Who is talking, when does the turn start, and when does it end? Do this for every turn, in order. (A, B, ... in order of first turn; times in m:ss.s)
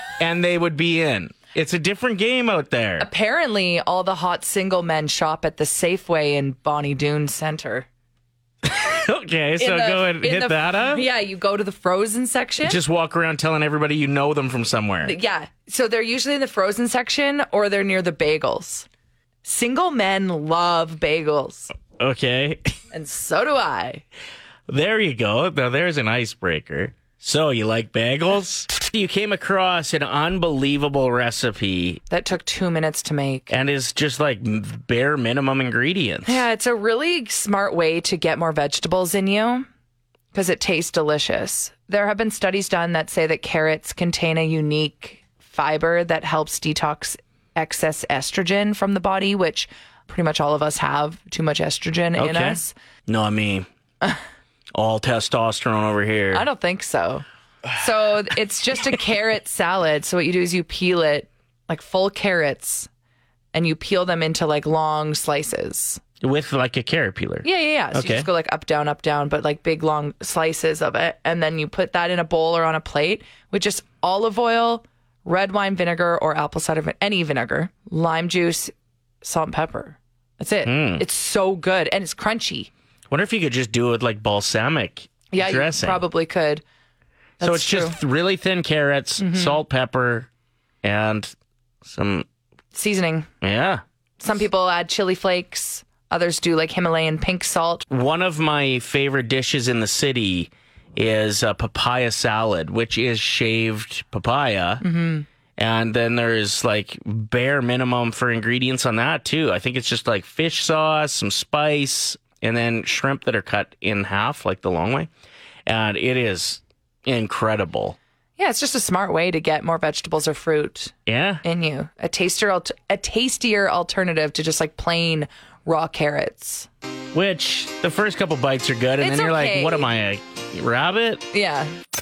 0:00.2-0:03.1 A
0:03.0-0:07.9 B
0:08.6-0:11.0 A
0:09.6-0:12.8 B
0:12.6-0:15.1 A
0:15.0-0:18.9 B
0:19.4-0:21.7 B
0:21.9-0:22.7 A
0:22.9-0:24.0 B
0:24.7-0:32.0 A
0:32.1-0:33.5 B
0:33.5-0:36.4 A
0:36.2-0:39.7 B
0:40.3-0:52.7 B
0:52.2-0:53.7 A
0:54.7-0:56.4 A
0:56.3-1:02.9 B
1:03.5-1:06.0 B
1:06.2-1:08.3 A
1:07.4-1:22.7 B
1:20.6-1:21.0 A
1:23.1-1:26.0 A
1:25.3-1:26.6 B
1:27.4-1:28.0 B
1:27.4-1:30.3 A
1:29.2-1:29.6 B
1:30.8-1:32.3 A
1:32.7-1:33.3 B
1:33.4-1:33.8 A
1:34.2-1:37.8 B
1:37.9-1:44.8 A
1:44.8-1:45.2 B
1:45.6-1:55.1 A
1:55.6-1:58.0 A
1:58.4-2:06.7 B
2:01.1-2:01.4 A
2:07.1-2:11.2 A
2:09.0-2:09.9 B
2:11.3-2:11.7 B